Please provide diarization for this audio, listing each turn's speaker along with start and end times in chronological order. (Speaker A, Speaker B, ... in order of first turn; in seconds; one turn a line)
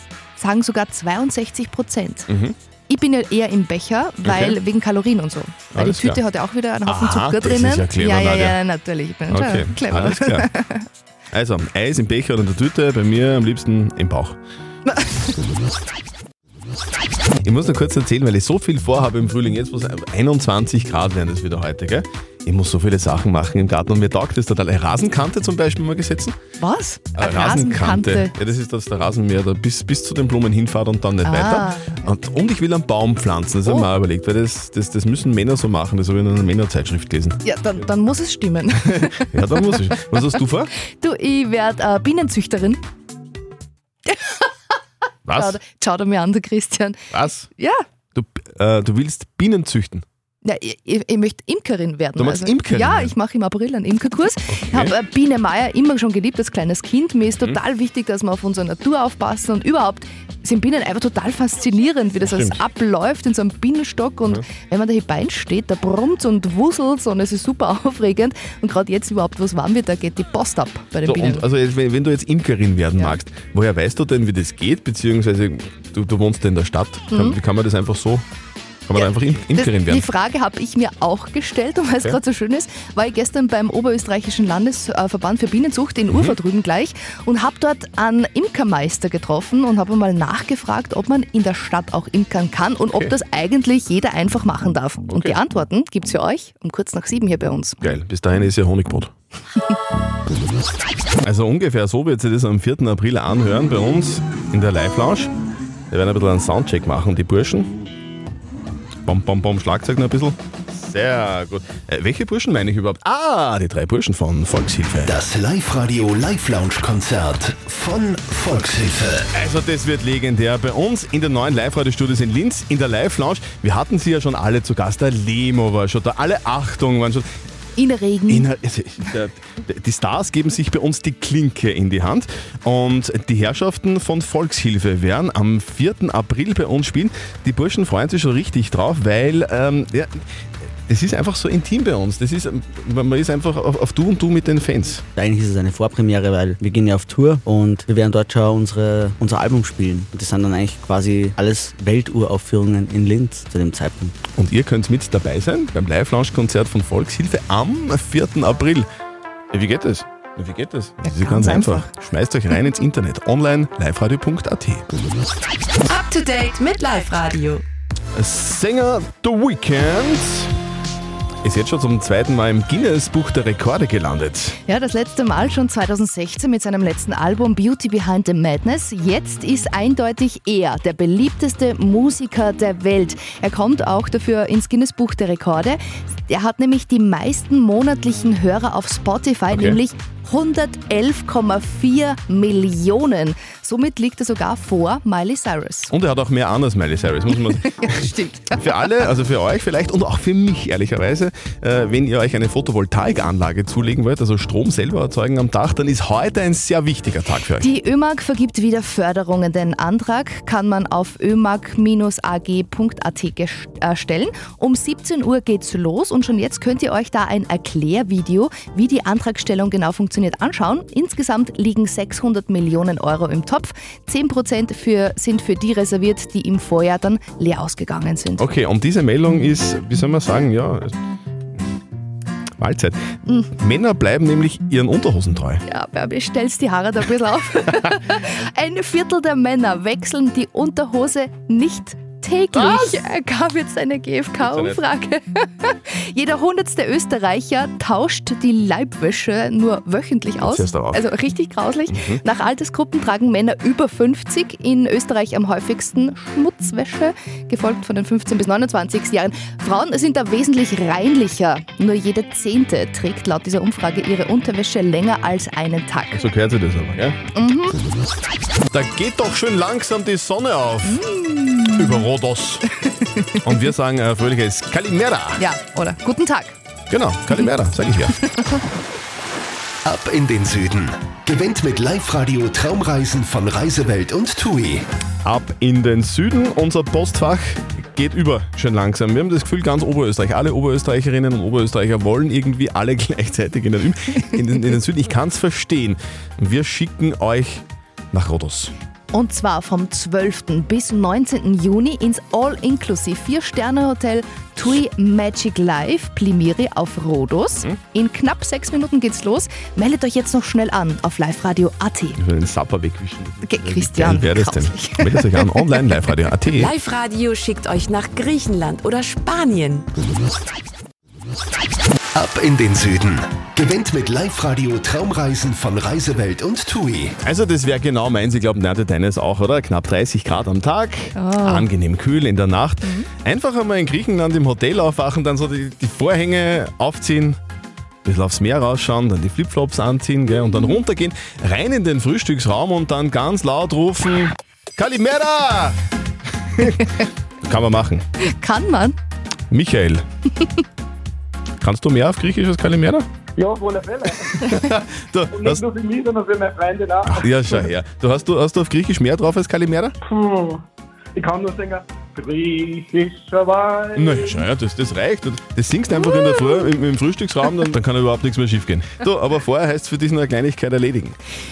Speaker A: 0.4-2.3
Speaker B: 2.3-2.5
Speaker A: 2.9-10.8
Speaker B: 4.2-4.6
Speaker B: 5.7-6.2
Speaker B: 6.8-8.6
Speaker B: 9.3-10.5
Speaker B: 11.3-14.4
Speaker A: 14.9-15.3
Speaker B: 17.4-26.3
Speaker A: 26.6-28.3
Speaker B: 27.1-37.4
Speaker A: 31.2-32.0
Speaker A: 37.4-39.4
Speaker B: 38.8-40.7
Speaker A: 41.0-42.8
Speaker A: 44.1-44.5
Speaker B: 45.3-45.6
Speaker A: 45.3-47.0
Speaker B: 47.1-47.5
Speaker B: 48.1-50.0
Speaker A: 50.4-71.4
Speaker B: 52.1-53.1
Speaker B: 54.7-54.9
Speaker B: 62.2-62.6
Speaker B: 71.0-78.2
Speaker A: 77.1-77.4
Speaker B: 78.9-80.1
Speaker A: 79.0-97.8
Speaker B: 86.1-86.4
Speaker B: 95.1-95.4
Speaker B: 97.8-99.1
Speaker B: 101.2-105.3
Speaker B: 105.9-107.7
Speaker B: 109.0-115.2
Speaker C: 115.1-119.2
Speaker B: 119.3-127.2
Speaker A: 127.8-128.5
Speaker B: 128.3-140.1
Speaker B: 140.9-145.0
Speaker D: 145.2-154.1
Speaker B: 154.3-158.8
Speaker B: 159.5-164.8
Speaker A: 161.0-161.9
Speaker E: 165.9-167.6
Speaker B: 168.1-170.5
Speaker B: 171.4-174.6
Speaker A: 174.7-195.9
Speaker B: 189.5-189.8
Speaker B: 195.9-197.9
Speaker A: 197.6-198.6
Speaker B: 198.5-207.7
Speaker A: 207.6-228.4
Speaker B: 228.4-230.9
Speaker B: 232.6-232.9
Speaker B: 233.5-235.6
Speaker A: 235.7-266.2
Speaker B: 242.5-243.0
Speaker B: 244.4-244.8
Speaker B: 250.4-251.0
Speaker B: 251.9-252.2
Speaker B: 266.1-267.2
Speaker A: 267.3-267.8
Speaker B: 268.7-271.0
Speaker A: 270.8-272.1
Speaker B: 271.7-272.6
Speaker A: 272.8-273.5
Speaker B: 273.4-275.4
Speaker A: 275.4-276.6
Speaker B: 276.9-278.1
Speaker A: 278.2-278.6
Speaker C: 279.8-284.8
Speaker B: 285.2-298.7
Speaker A: 299.1-312.2
Speaker B: 312.2-316.7
Speaker A: 313.4-315.9
Speaker E: 316.6-319.8
Speaker C: 322.1-327.1
Speaker B: 327.2-337.4
Speaker A: 331.1-331.7
Speaker A: 332.8-333.1
Speaker B: 338.0-345.8
Speaker B: 346.6-346.9
Speaker B: 347.4-348.0
Speaker A: 348.2-348.9
Speaker B: 349.5-350.0
Speaker B: 351.6-353.1
Speaker F: 353.4-354.4
Speaker B: 354.4-355.6
Speaker F: 355.3-357.6
Speaker B: 357.0-359.9
Speaker F: 360.0-360.6
Speaker F: 361.1-364.4
Speaker B: 363.9-371.1